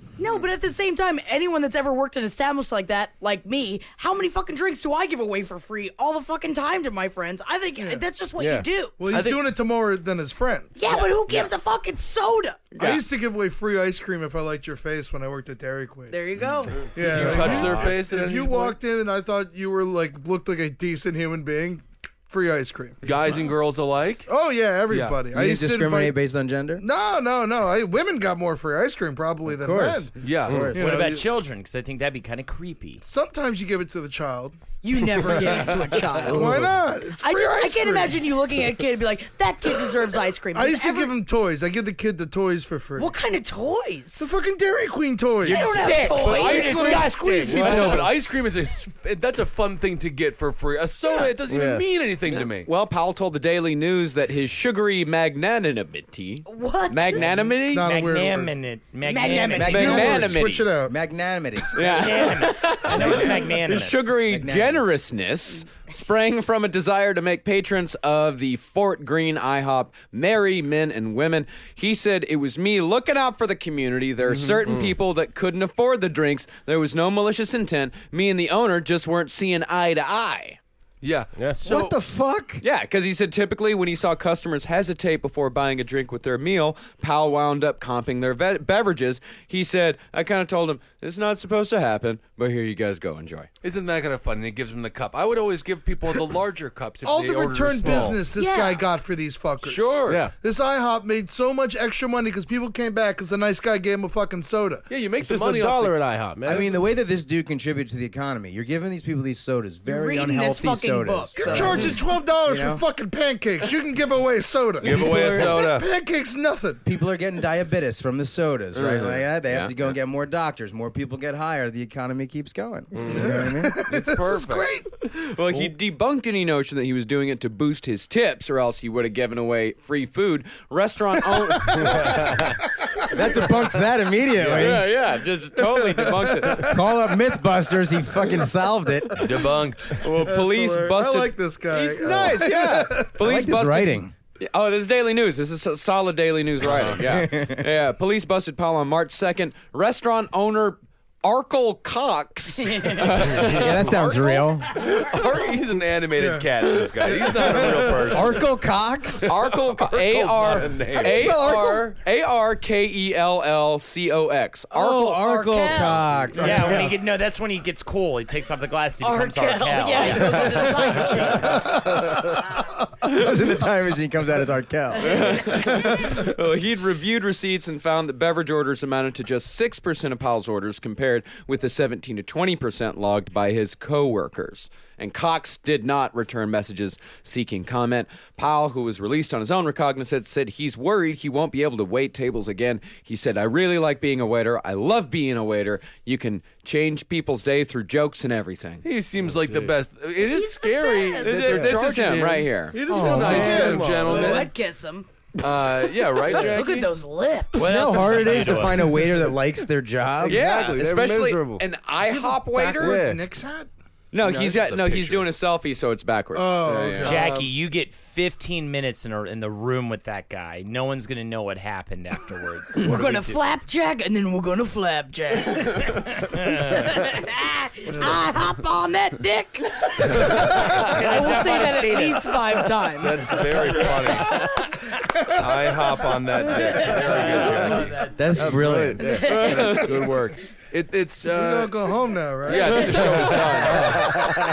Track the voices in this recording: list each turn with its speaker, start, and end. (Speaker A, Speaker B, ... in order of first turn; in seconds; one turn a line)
Speaker A: 0.2-9.0
Speaker B: 7.8-8.1
Speaker C: 8.4-8.7
Speaker B: 9.0-10.8
Speaker D: 9.1-9.4
Speaker A: 10.8-12.8
Speaker E: 10.8-11.5
Speaker E: 12.8-13.0
Speaker B: 12.8-16.2
Speaker A: 16.1-16.9
Speaker B: 16.9-23.1
Speaker D: 17.0-18.8
Speaker F: 17.0-18.0
Speaker D: 23.0-24.3
Speaker B: 24.3-26.2
Speaker D: 24.9-25.2
Speaker F: 25.3-26.8
Speaker B: 26.8-30.1
Speaker F: 29.5-30.9
Speaker D: 30.2-30.7
Speaker C: 30.5-30.7
Speaker B: 30.7-31.3
Speaker G: 30.8-33.0
Speaker B: 33.0-35.7
Speaker A: 34.8-36.7
Speaker F: 36.2-36.7
Speaker B: 36.2-38.2
Speaker A: 37.2-41.1
Speaker B: 40.5-43.1
Speaker A: 43.0-44.4
Speaker B: 44.2-45.7
Speaker A: 45.4-47.8
Speaker G: 45.5-47.8
Speaker D: 46.1-52.7
Speaker B: 46.4-48.3
Speaker C: 51.5-51.9
Speaker E: 52.3-57.9
Speaker A: 56.5-57.3
Speaker B: 57.6-58.5
Speaker G: 57.8-59.9
Speaker A: 59.0-60.1
Speaker F: 59.5-61.9
Speaker E: 59.6-60.7
Speaker B: 59.6-61.0
Speaker E: 61.7-80.6
Speaker G: 61.8-64.1
Speaker F: 64.3-64.9
Speaker D: 74.2-74.8
Speaker D: 81.0-81.9
Speaker F: 81.7-82.6
Speaker E: 82.6-93.5
Speaker D: 93.6-98.2
Speaker B: 97.0-104.9
Speaker A: 98.3-98.8
Speaker D: 99.6-100.3
Speaker C: 100.1-100.3
Speaker D: 104.9-106.0
Speaker C: 105.2-106.7
Speaker F: 106.5-112.8
Speaker A: 109.9-111.9
Speaker B: 111.4-116.8
Speaker D: 114.8-115.9
Speaker F: 114.8-115.6
Speaker F: 116.8-123.8
Speaker E: 118.8-120.0
Speaker B: 123.1-124.9
Speaker D: 123.9-124.7
Speaker E: 125.1-132.3
Speaker B: 131.4-132.2
Speaker F: 133.1-134.9
Speaker D: 134.4-134.7
Speaker E: 134.5-136.7
Speaker B: 135.6-136.9
Speaker F: 136.4-139.2
Speaker D: 139.2-140.0
Speaker E: 140.0-154.8
Speaker B: 140.2-143.2
Speaker F: 143.2-144.1
Speaker F: 146.7-147.7
Speaker A: 152.6-154.5
Speaker F: 153.4-154.7
Speaker D: 154.8-158.5
Speaker B: 156.2-156.5
Speaker B: 157.0-158.2
Speaker F: 158.1-159.3
Speaker E: 159.2-165.3
Speaker D: 159.4-161.4
Speaker F: 160.9-161.9
Speaker F: 164.7-167.0
Speaker A: 165.1-166.8
Speaker G: 166.3-170.4
Speaker A: 169.0-171.9
Speaker B: 170.9-172.5
Speaker F: 173.0-175.9
Speaker A: 175.0-176.1
Speaker E: 175.0-198.9
Speaker D: 198.8-204.5
Speaker C: 199.2-199.8
Speaker A: 200.2-201.8
Speaker E: 201.2-202.8
Speaker B: 202.7-204.0
Speaker C: 202.9-204.4
Speaker A: 203.2-205.1
Speaker D: 205.4-206.9
Speaker A: 206.2-208.1
Speaker G: 207.6-209.0
Speaker F: 207.6-210.4
Speaker C: 210.2-211.6
Speaker E: 210.3-213.0
Speaker D: 212.1-212.9
Speaker C: 212.8-213.2
Speaker B: 212.9-213.7
Speaker E: 214.1-217.2
Speaker D: 214.2-215.3
Speaker B: 216.3-217.3
Speaker D: 217.0-217.5
Speaker G: 217.0-223.4
Speaker A: 222.8-234.1
Speaker B: 227.9-228.2
Speaker D: 230.2-230.7
Speaker G: 230.7-232.3
Speaker D: 233.0-234.5
Speaker D: 235.3-238.5
Speaker A: 236.6-237.2
Speaker G: 236.8-238.4
Speaker F: 238.2-239.2
Speaker C: 238.4-239.3
Speaker A: 239.0-240.1
Speaker D: 239.1-241.8
Speaker E: 239.2-240.0
Speaker B: 241.3-243.0
Speaker D: 242.4-244.2
Speaker E: 242.5-243.8
Speaker F: 243.6-244.2